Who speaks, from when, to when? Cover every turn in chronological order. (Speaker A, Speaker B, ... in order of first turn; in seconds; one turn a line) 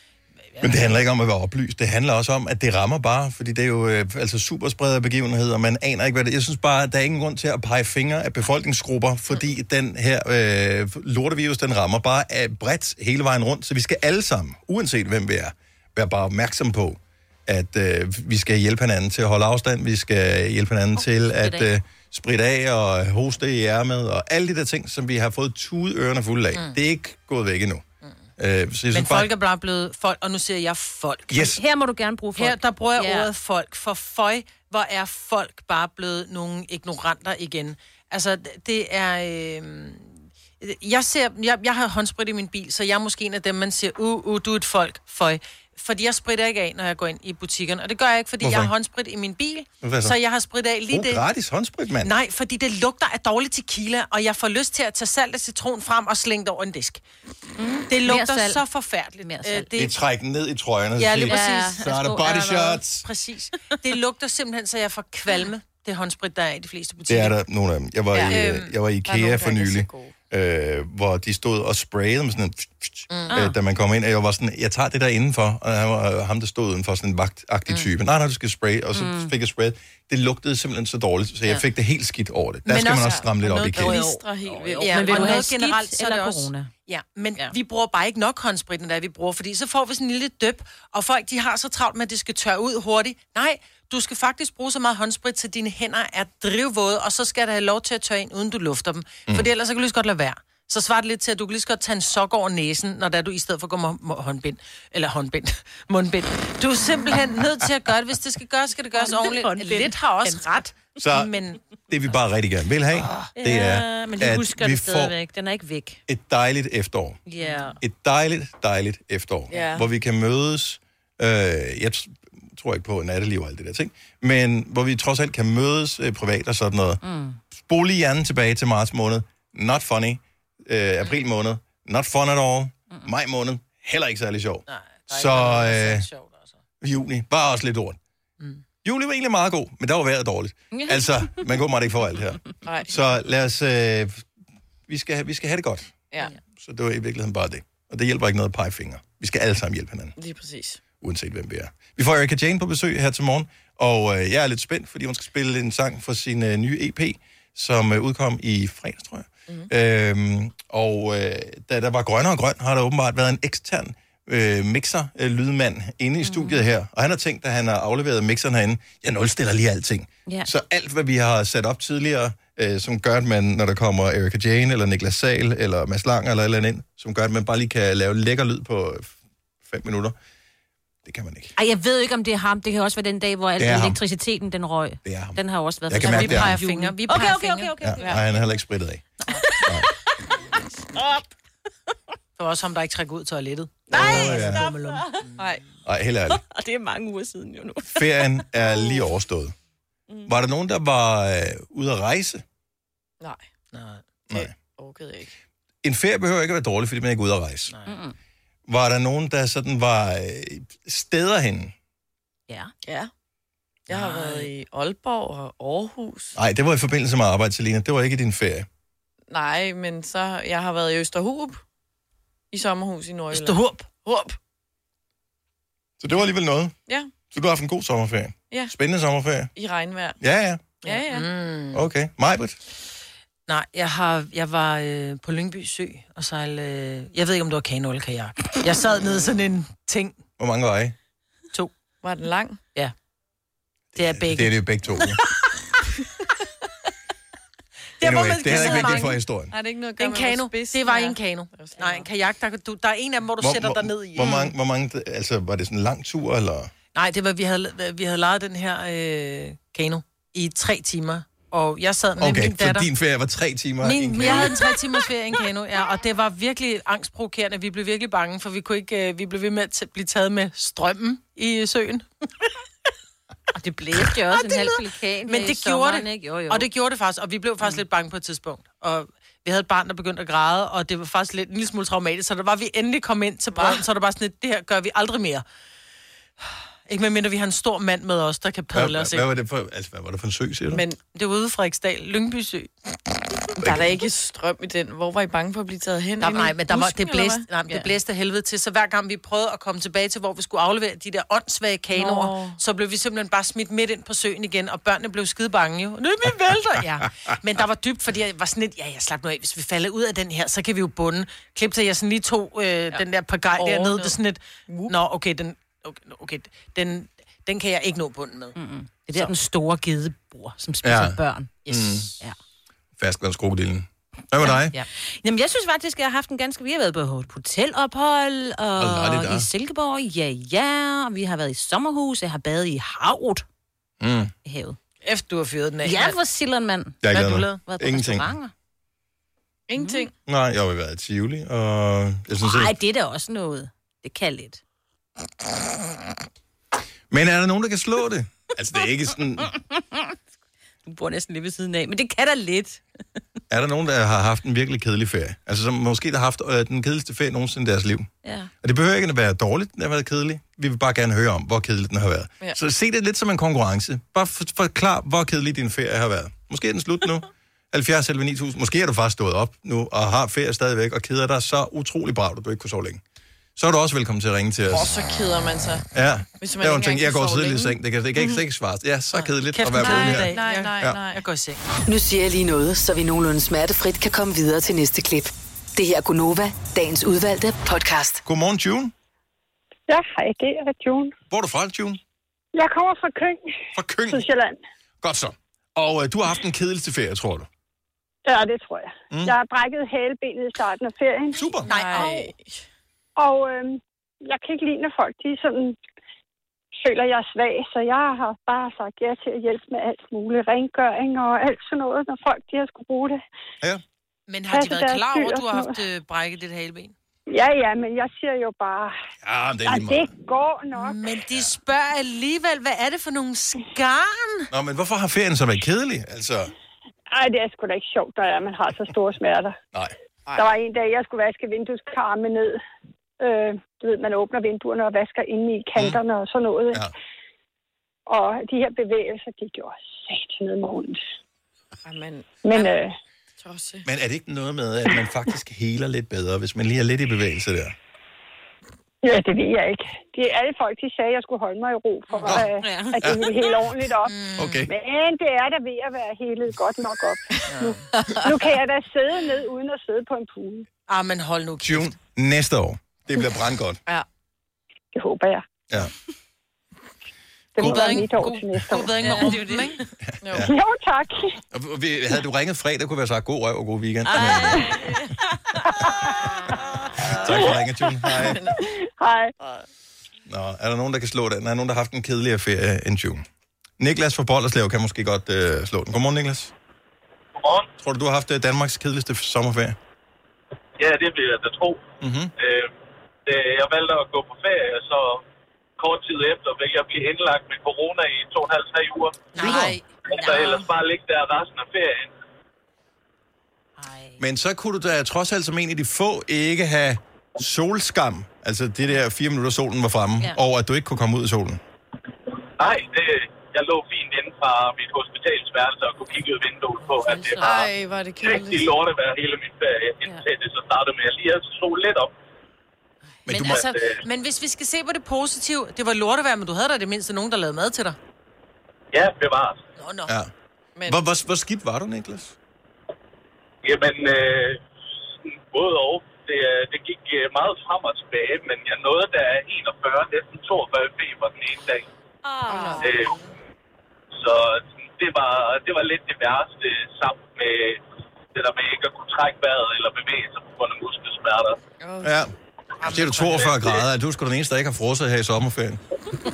Speaker A: 0.6-1.0
Speaker B: 0.6-27.8
Speaker C: 20.9-21.7
Speaker B: 28.4-29.3
Speaker A: 28.9-31.6
Speaker B: 31.3-31.6
Speaker C: 31.5-33.3
Speaker A: 32.3-51.2
Speaker B: 48.4-48.7
Speaker B: 49.8-50.1
Speaker B: 50.9-52.1
Speaker A: 52.0-57.0
Speaker C: 57.6-58.6
Speaker A: 57.9-59.9
Speaker C: 59.2-59.7
Speaker B: 59.8-63.0
Speaker A: 61.0-67.4
Speaker C: 61.3-62.8
Speaker B: 67.1-84.0
Speaker D: 68.1-68.4
Speaker A: 68.3-68.7
Speaker D: 69.0-70.1
Speaker A: 73.1-73.4
Speaker C: 73.3-73.5
Speaker C: 78.9-79.3
Speaker A: 82.7-83.2
Speaker D: 83.0-85.4
Speaker C: 83.7-86.7
Speaker A: 84.8-111.6
Speaker C: 108.9-110.7
Speaker B: 111.0-111.3
Speaker B: 111.9-115.1
Speaker C: 113.3-116.0
Speaker B: 116.1-117.2
Speaker C: 117.3-117.8
Speaker B: 117.8-127.0
Speaker D: 119.5-119.9
Speaker C: 127.0-127.4
Speaker B: 127.5-136.1
Speaker A: 134.7-136.6
Speaker B: 136.8-138.0
Speaker B: 138.8-144.2
Speaker C: 140.7-141.3
Speaker D: 142.6-142.9
Speaker B: 144.9-145.9
Speaker B: 146.6-150.1
Speaker D: 150.2-150.8
Speaker B: 151.0-180.2
Speaker C: 166.2-166.7
Speaker B: 181.0-181.5
Speaker C: 181.6-188.3
Speaker B: 183.6-184.0
Speaker B: 185.0-186.5
Speaker A: 186.0-187.8
Speaker B: 187.8-189.0
Speaker C: 189.3-190.4
Speaker C: 190.9-191.2
Speaker A: 192.4-195.3
Speaker C: 193.9-195.2
Speaker B: 193.9-194.7
Speaker D: 195.4-195.6
Speaker B: 195.8-196.4
Speaker C: 196.3-199.0
Speaker B: 197.9-199.5
Speaker B: 200.3-202.4
Speaker D: 203.2-203.4
Speaker A: 203.7-204.0
Speaker D: 204.3-205.3
Speaker B: 205.8-207.7
Speaker A: 207.7-207.9
Speaker C: 207.8-208.1
Speaker B: 208.7-211.7
Speaker D: 212.8-213.1
Speaker D: 213.9-216.3
Speaker A: 213.9-214.5
Speaker B: 216.3-218.7
Speaker D: 219.3-221.6
Speaker D: 222.5-224.4
Speaker A: 223.3-223.8
Speaker B: 226.0-226.7
Speaker B: 227.3-229.5
Speaker D: 229.5-230.2
Speaker B: 230.2-230.7
Speaker D: 230.8-231.3
Speaker A: 230.9-231.8
Speaker B: 231.7-232.6
Speaker A: 233.5-240.2
Speaker B: 240.4-240.9
Speaker D: 242.0-242.6
Speaker B: 243.9-245.2
Speaker A: 243.9-244.6
Speaker A: 248.0-249.2
Speaker B: 248.0-249.5
Speaker D: 248.5-252.1
Speaker A: 250.0-254.5
Speaker B: 253.4-256.7
Speaker A: 256.9-262.9
Speaker B: 262.2-264.7
Speaker A: 263.8-272.1
Speaker C: 273.6-276.7
Speaker A: 274.1-285.4
Speaker D: 283.5-283.8
Speaker A: 286.9-289.2
Speaker B: 288.7-290.8
Speaker D: 290.7-291.0
Speaker A: 291.1-292.7
Speaker D: 293.6-297.8
Speaker B: 293.6-293.9
Speaker A: 296.2-318.6
Speaker D: 301.9-302.6
Speaker D: 313.6-314.2
Speaker D: 314.7-314.9
Speaker C: 318.6-321.6
Speaker B: 320.8-322.1
Speaker D: 321.6-322.1
Speaker B: 323.0-324.7
Speaker C: 325.2-333.4
Speaker B: 328.8-329.5
Speaker B: 334.0-334.3
Speaker C: 334.4-334.8
Speaker A: 335.0-336.2
Speaker C: 335.8-338.5
Speaker B: 337.0-338.3
Speaker D: 339.7-340.1
Speaker C: 339.8-340.1
Speaker B: 340.2-342.7
Speaker C: 342.4-344.6
Speaker B: 347.1-349.5
Speaker C: 349.5-350.1
Speaker C: 350.8-352.8
Speaker B: 353.5-358.1
Speaker C: 358.2-358.5
Speaker B: 358.6-373.0
Speaker B: 373.6-374.9
Speaker D: 374.7-375.8
Speaker B: 375.9-381.0
Speaker D: 376.4-377.7
Speaker A: 379.1-381.6
Speaker D: 379.8-381.2
Speaker E: 381.9-388.2
Speaker B: 388.2-388.9
Speaker F: 389.9-391.1
Speaker B: 391.3-392.0
Speaker F: 392.5-393.4
Speaker B: 393.7-394.2
Speaker F: 394.1-394.6
Speaker B: 395.0-397.5
Speaker F: 398.2-401.4
Speaker B: 401.3-401.7
Speaker A: 401.6-402.3
Speaker D: 401.7-402.6
Speaker F: 403.2-405.8
Speaker F: 406.8-413.2
Speaker A: 414.3-416.9
Speaker F: 414.5-415.7
Speaker F: 417.3-418.9
Speaker B: 419.2-420.1
Speaker F: 419.6-420.9
Speaker A: 420.7-424.5
Speaker B: 424.5-426.5
Speaker F: 427.1-429.5
Speaker F: 430.3-432.6
Speaker F: 433.2-436.9
Speaker F: 438.1-441.0
Speaker D: 441.8-442.4
Speaker F: 442.4-442.9
Speaker D: 443.4-443.8
Speaker B: 443.8-447.7
Speaker F: 449.0-454.1
Speaker C: 452.1-453.0
Speaker B: 452.2-453.3
Speaker A: 454.0-454.7
Speaker B: 454.4-454.7
Speaker F: 454.7-460.6
Speaker D: 457.9-458.3
Speaker A: 460.9-461.9
Speaker B: 461.6-463.8
Speaker F: 464.9-465.4
Speaker F: 467.5-468.9
Speaker A: 467.6-469.8
Speaker B: 467.6-467.9
Speaker C: 469.0-469.8
Speaker D: 470.2-470.5
Speaker B: 470.3-470.5
Speaker F: 470.4-471.2
Speaker B: 471.5-474.8
Speaker C: 474.0-475.2
Speaker C: 476.0-476.6
Speaker B: 477.0-478.4
Speaker C: 477.1-477.4
Speaker D: 478.1-478.6
Speaker F: 479.0-479.3
Speaker B: 480.2-483.2
Speaker B: 483.8-486.5
Speaker G: 487.4-487.7
Speaker B: 487.8-489.8
Speaker G: 490.8-492.7
Speaker B: 492.0-492.3
Speaker G: 493.2-495.2
Speaker G: 495.8-499.4
Speaker C: 499.3-500.7
Speaker A: 499.4-499.6
Speaker D: 499.4-499.8
Speaker G: 500.1-502.1
Speaker C: 503.8-504.2
Speaker B: 504.2-511.6
Speaker G: 512.6-517.5
Speaker C: 516.9-517.7
Speaker D: 517.4-518.7
Speaker G: 518.2-522.1
Speaker B: 523.3-523.6
Speaker C: 523.3-523.7
Speaker A: 523.4-528.0
Speaker G: 528.9-529.6
Speaker A: 529.8-530.1
Speaker B: 530.9-532.3
Speaker G: 533.6-534.6
Speaker G: 535.2-541.9
Speaker C: 542.2-543.1
Speaker D: 542.5-542.9
Speaker G: 542.8-543.1
Speaker G: 544.1-547.8
Speaker G: 548.3-551.6
Speaker D: 551.8-552.1
Speaker B: 552.0-555.8
Speaker A: 552.9-553.4